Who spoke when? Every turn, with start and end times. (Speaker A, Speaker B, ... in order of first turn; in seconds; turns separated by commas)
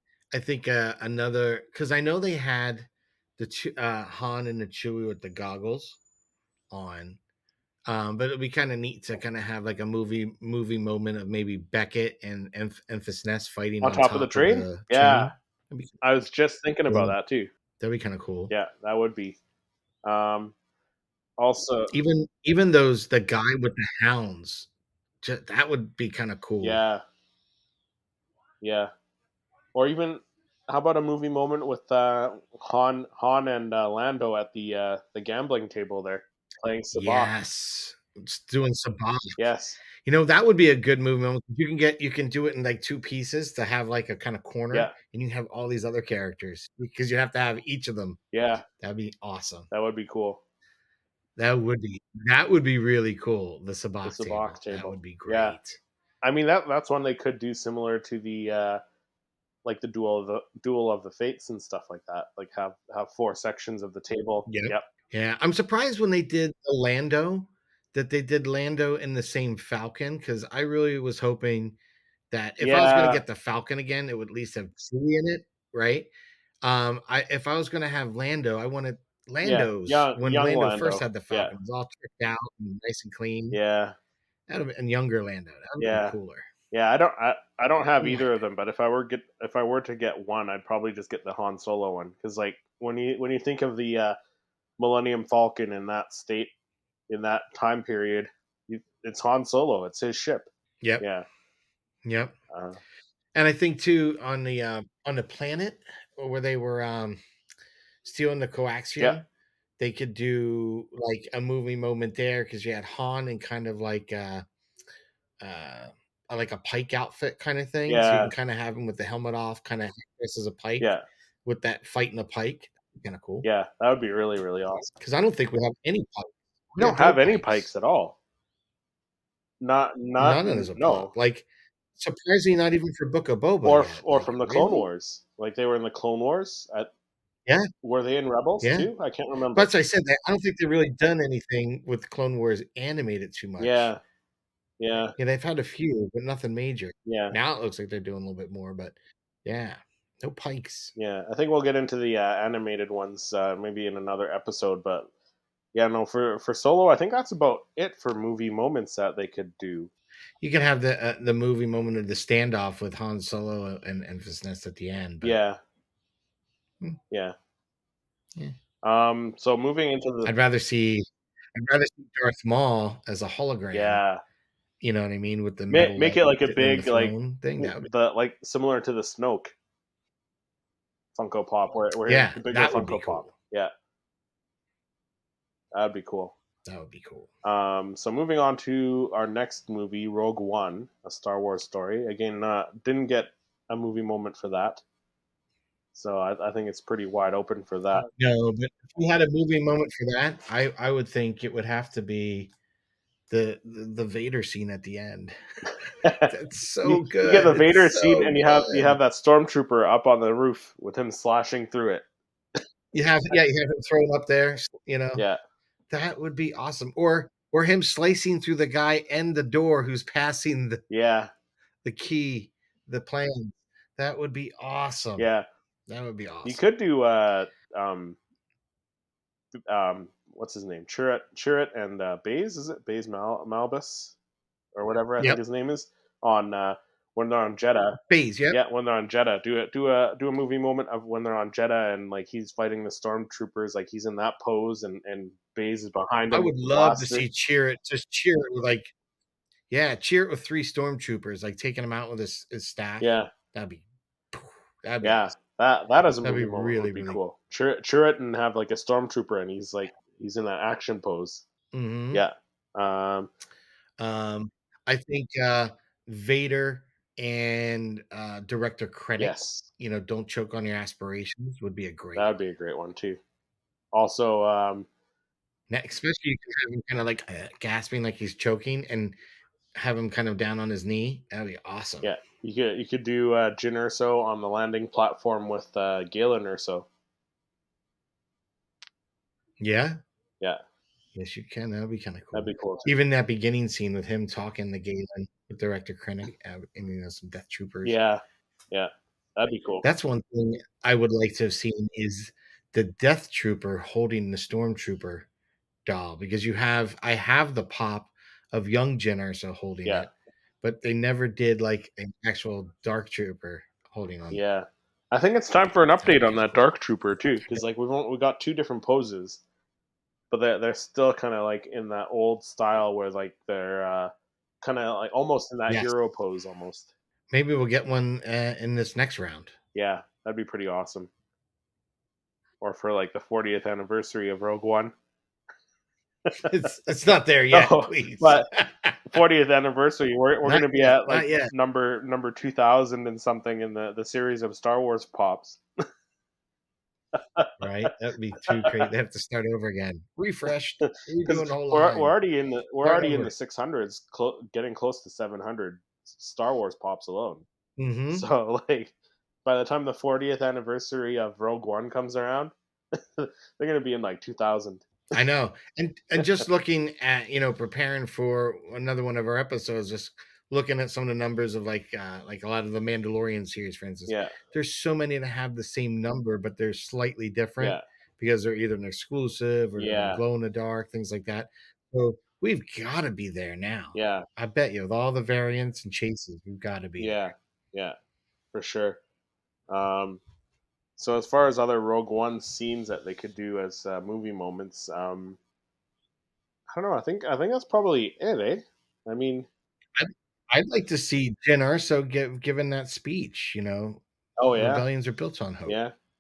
Speaker A: 0.3-6.0, Speaker A: 6.7-7.2, Speaker A: 7.9-16.0, Speaker B: 13.8-15.3, Speaker B: 16.0-17.5, Speaker A: 16.9-17.1, Speaker A: 17.8-18.5, Speaker B: 18.5-19.4, Speaker B: 20.0-20.5, Speaker B: 21.4-21.9, Speaker A: 21.9-24.7, Speaker A: 25.2-26.8, Speaker B: 26.6-27.0, Speaker B: 28.6-28.9, Speaker B: 29.7-37.3, Speaker A: 36.9-39.4, Speaker B: 39.4-39.8, Speaker A: 40.0-48.2, Speaker B: 48.3-48.6, Speaker A: 48.8-49.7, Speaker B: 49.7-50.4, Speaker A: 51.4-55.8, Speaker B: 54.0-55.5, Speaker B: 56.2-58.8, Speaker B: 59.6-64.8, Speaker A: 64.5-71.8, Speaker A: 72.3-76.1, Speaker B: 72.6-73.2, Speaker A: 76.6-83.6, Speaker B: 79.4-81.5, Speaker B: 83.5-84.0, Speaker A: 84.5-86.5, Speaker B: 85.8-86.2, Speaker B: 86.7-94.2, Speaker A: 88.0-88.3, Speaker B: 94.8-96.5, Speaker B: 97.1-100.5, Speaker B: 101.0-101.2, Speaker A: 102.0-102.3, Speaker B: 102.5-102.8, Speaker A: 103.3-107.2, Speaker A: 108.0-109.2, Speaker A: 109.8-114.4, Speaker A: 115.4-120.9, Speaker B: 117.9-118.3, Speaker B: 120.8-121.0, Speaker A: 121.4-123.5, Speaker B: 123.4-124.9, Speaker A: 125.0-127.7, Speaker B: 126.8-128.2, Speaker B: 129.6-131.1, Speaker A: 130.2-134.9, Speaker B: 133.6-136.9, Speaker B: 137.8-139.7, Speaker A: 138.6-138.9, Speaker A: 139.5-143.9, Speaker B: 143.6-144.0, Speaker B: 144.8-145.1, Speaker A: 145.2-150.9, Speaker B: 147.1-147.3, Speaker B: 150.9-155.1, Speaker B: 155.7-159.9, Speaker A: 160.4-165.4, Speaker B: 165.2-165.6, Speaker B: 168.8-170.3, Speaker A: 170.2-174.0, Speaker B: 173.7-174.2, Speaker A: 174.8-177.9, Speaker B: 175.7-179.5, Speaker B: 181.2-183.7, Speaker A: 182.1-183.3, Speaker B: 185.7-186.3, Speaker A: 186.6-187.3, Speaker B: 187.4-194.8, Speaker B: 195.9-198.1, Speaker A: 198.0-202.5, Speaker A: 203.3-205.3, Speaker B: 206.0-206.3, Speaker A: 206.3-209.0, Speaker B: 206.8-212.0, Speaker A: 212.9-215.2, Speaker A: 215.9-220.8, Speaker B: 220.9-221.3, Speaker A: 221.8-225.3, Speaker B: 225.2-225.4, Speaker A: 225.9-226.6, Speaker B: 226.4-228.2, Speaker B: 229.7-234.2, Speaker B: 234.8-238.0, Speaker A: 238.1-238.6, Speaker B: 238.5-247.2, Speaker A: 246.3-248.9, Speaker A: 249.7-255.2, Speaker B: 253.0-253.3, Speaker B: 255.0-261.4, Speaker A: 256.2-257.2, Speaker A: 261.7-262.2, Speaker B: 262.1-263.3, Speaker A: 264.0-272.3, Speaker B: 269.2-269.7, Speaker B: 272.1-273.2, Speaker B: 273.9-274.9, Speaker A: 275.7-279.1, Speaker A: 279.7-282.1, Speaker B: 282.0-286.9, Speaker A: 289.6-290.0, Speaker A: 291.1-298.0, Speaker B: 292.3-292.9, Speaker B: 297.8-299.8, Speaker A: 299.8-305.2, Speaker A: 305.9-314.4, Speaker B: 314.3-319.4, Speaker A: 316.0-316.6, Speaker B: 320.3-326.9, Speaker A: 327.3-329.5, Speaker B: 329.7-331.1, Speaker B: 332.6-334.9, Speaker B: 336.3-336.5, Speaker A: 336.5-339.0, Speaker B: 337.5-338.5, Speaker B: 339.1-345.6, Speaker A: 340.4-341.5, Speaker B: 347.1-347.5, Speaker A: 347.6-352.1, Speaker B: 348.5-348.9, Speaker B: 350.8-357.4, Speaker A: 352.8-353.3, Speaker A: 357.8-358.2, Speaker B: 358.1-358.9, Speaker B: 359.4-365.0, Speaker A: 365.1-387.2, Speaker B: 374.1-374.4, Speaker B: 379.8-380.2, Speaker B: 383.9-384.2, Speaker B: 387.0-387.9, Speaker B: 388.5-389.0, Speaker B: 389.7-390.2, Speaker B: 391.0-395.4, Speaker B: 396.7-399.5, Speaker A: 399.9-404.0, Speaker B: 404.4-404.8, Speaker A: 404.5-405.8, Speaker B: 405.6-405.9